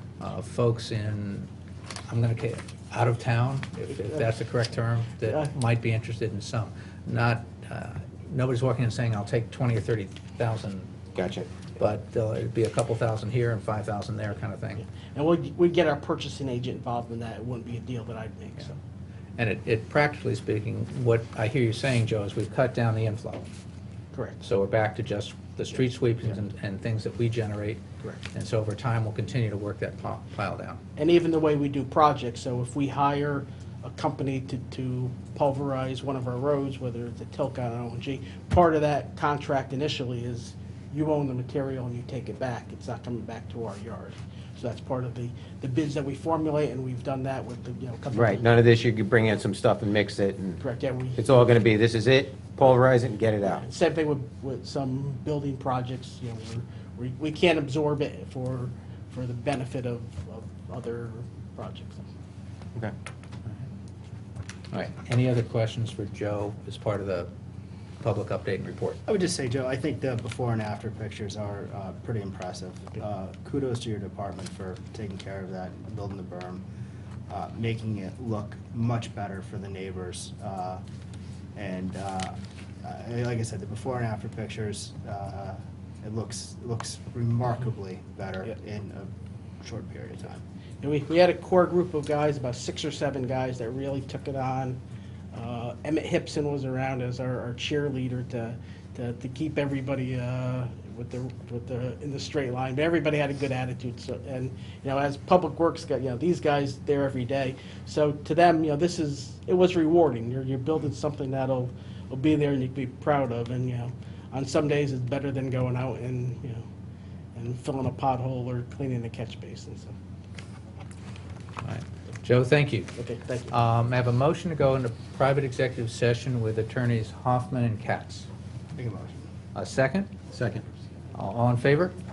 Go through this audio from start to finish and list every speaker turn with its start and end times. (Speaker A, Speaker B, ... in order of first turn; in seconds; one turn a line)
Speaker A: 0.2-1.5
Speaker A: 2.1-10.9
Speaker B: 11.1-11.5
Speaker A: 11.8-14.8
Speaker C: 15.1-18.8
Speaker A: 19.4-23.5
Speaker C: 24.1-24.4
Speaker A: 24.4-27.8
Speaker A: 28.3-30.8
Speaker C: 31.0-48.4
Speaker B: 48.1-50.6
Speaker C: 50.6-51.3
Speaker B: 51.1-53.6
Speaker C: 53.5-62.1
Speaker A: 64.7-67.3
Speaker A: 68.0-69.0
Speaker D: 69.1-76.6
Speaker D: 77.3-80.8
Speaker D: 81.5-89.1
Speaker D: 89.6-90.4
Speaker C: 90.8-94.8
Speaker C: 95.3-116.7
Speaker C: 117.3-119.9
Speaker A: 121.6-122.9
Speaker C: 122.9-123.5
Speaker A: 123.5-128.3
Speaker D: 128.8-129.2
Speaker A: 129.5-130.1
Speaker B: 130.3-130.6
Speaker A: 131.1-131.9